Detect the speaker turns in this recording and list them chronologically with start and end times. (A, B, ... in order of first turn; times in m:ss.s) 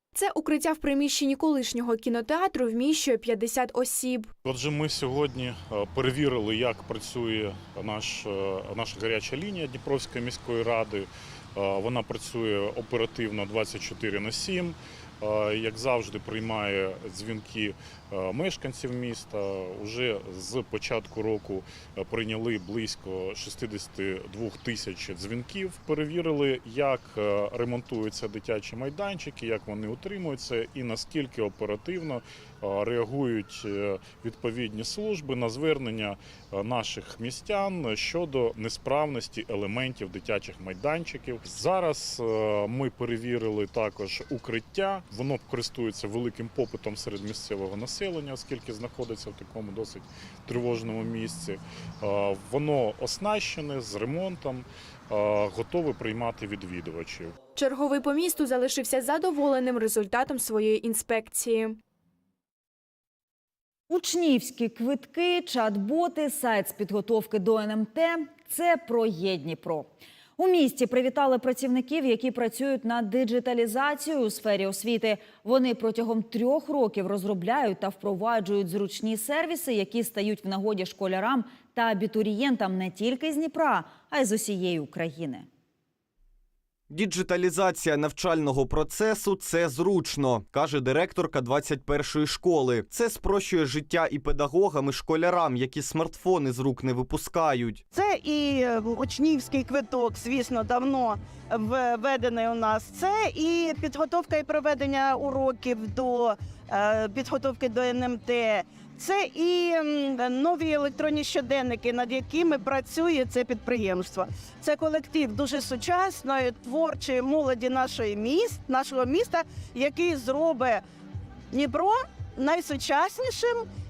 0:00.1-0:04.3 A
0:04.4-0:57.4 B
0:57.6-1:01.8 A
1:03.9-1:25.5 C
1:26.9-1:37.8 D
1:37.9-2:00.8 E
2:01.5-2:03.6 E